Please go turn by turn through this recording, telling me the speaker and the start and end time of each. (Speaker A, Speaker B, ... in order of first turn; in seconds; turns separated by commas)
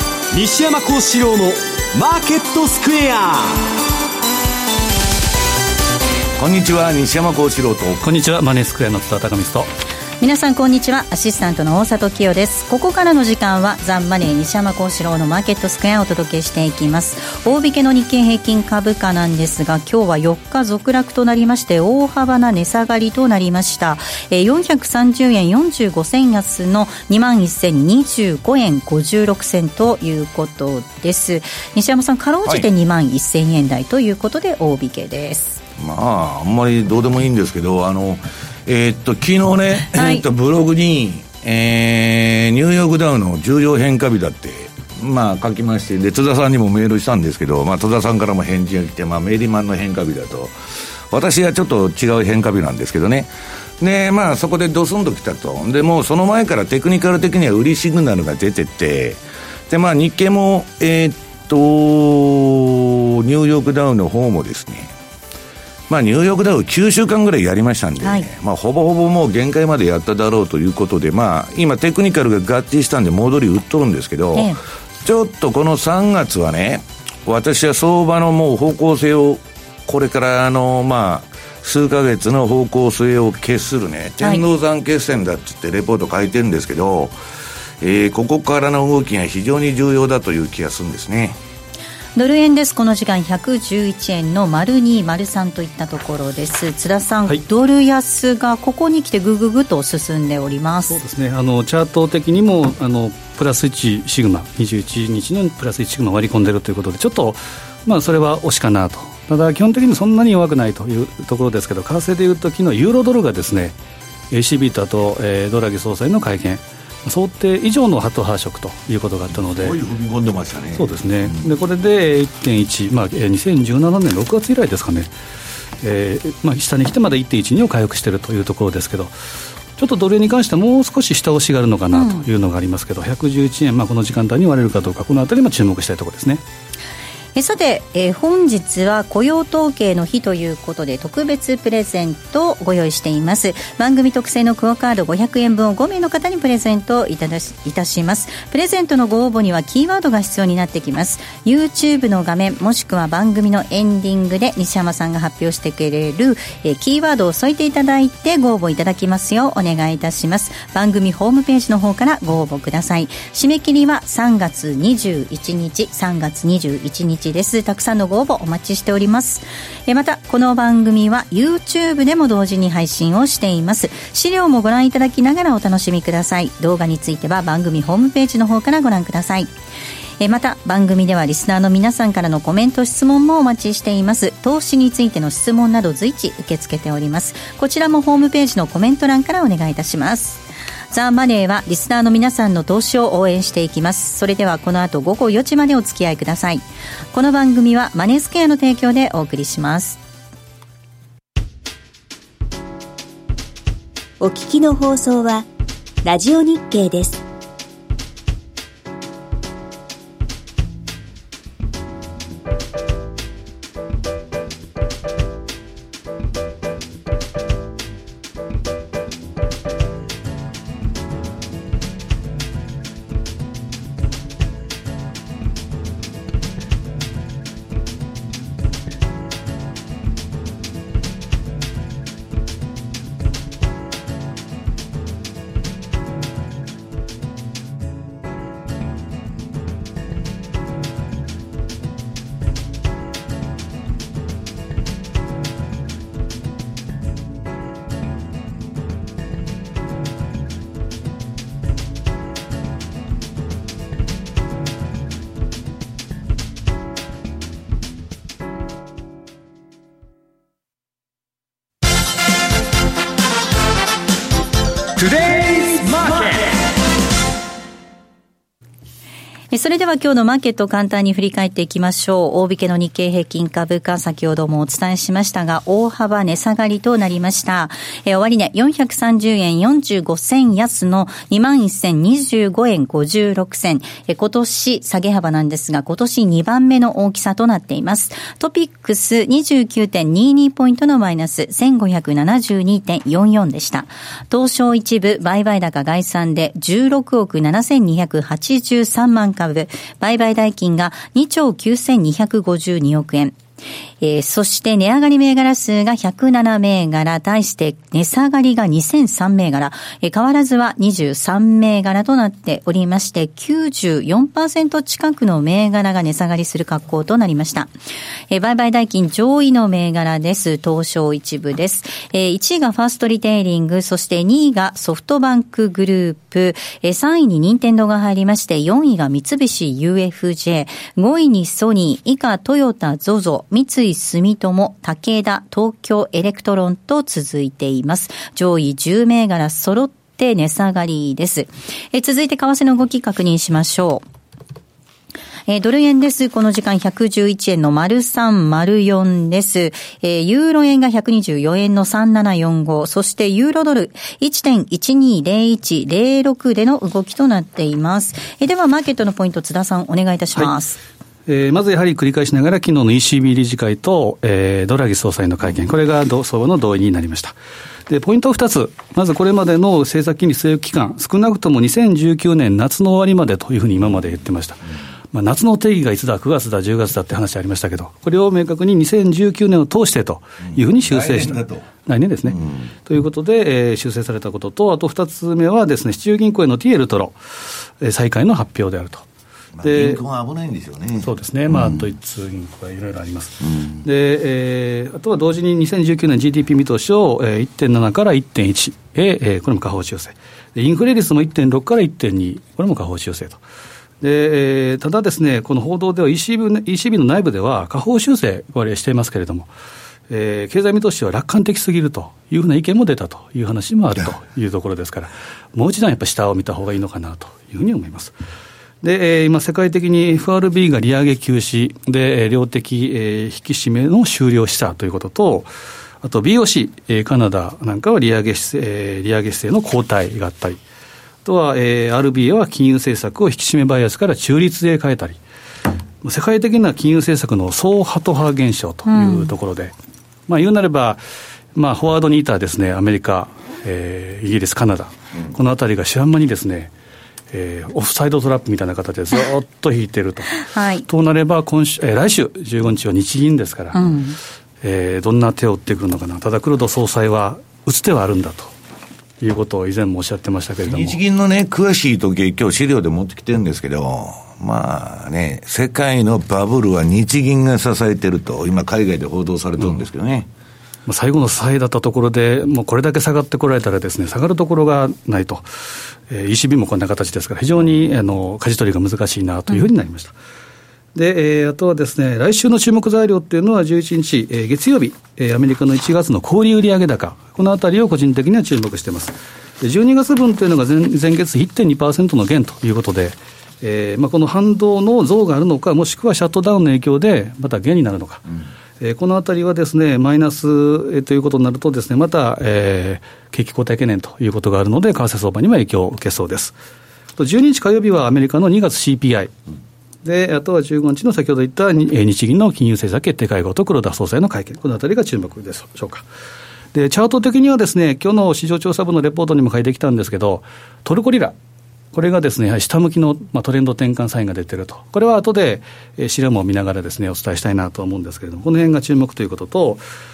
Speaker A: 0.3-3.6, Speaker B: 6.4-8.0, Speaker C: 8.0-9.7, Speaker D: 10.2-35.6, Speaker B: 35.8-50.5, Speaker D: 39.9-40.2, Speaker B: 51.1-53.3, Speaker B: 53.8-64.9, Speaker B: 65.9-74.5, Speaker D: 68.0-68.3, Speaker B: 75.0-87.1, Speaker B: 87.8-91.4, Speaker D: 92.2-101.0, Speaker C: 100.9-113.8, Speaker C: 114.3-119.8, Speaker B: 119.3-121.5, Speaker C: 120.7-125.1, Speaker C: 125.8-129.1, Speaker C: 129.8-136.4, Speaker D: 131.9-132.2, Speaker D: 137.3-179.5, Speaker D: 180.2-200.0, Speaker E: 204.2-205.5, Speaker E: 206.0-207.2, Speaker A: 264.9-266.5, Speaker D: 269.5-303.4, Speaker D: 304.0-317.7, Speaker D: 318.3-344.0, Speaker D: 345.5-360.8, Speaker C: 361.3-367.4, Speaker C: 367.9-387.2, Speaker B: 380.5-381.6, Speaker C: 387.8-389.1, Speaker B: 389.6-391.9, Speaker C: 389.6-390.0, Speaker C: 391.0-403.4, Speaker B: 393.5-393.8, Speaker C: 404.0-409.5, Speaker C: 410.1-418.1, Speaker C: 418.8-425.5, Speaker C: 426.0-430.6, Speaker C: 431.2-435.2, Speaker C: 436.0-439.7, Speaker D: 438.9-439.3, Speaker C: 440.3-441.0, Speaker C: 441.5-446.7, Speaker C: 447.3-453.9, Speaker D: 450.4-450.8, Speaker D: 453.7-454.2, Speaker C: 454.6-458.5, Speaker C: 459.2-461.0, Speaker B: 460.6-470.3, Speaker C: 470.9-475.4, Speaker C: 476.1-480.1, Speaker C: 480.9-498.3, Speaker C: 498.8-506.5, Speaker C: 507.2-509.3, Speaker C: 510.0-516.0, Speaker C: 516.7-521.3, Speaker C: 521.9-529.8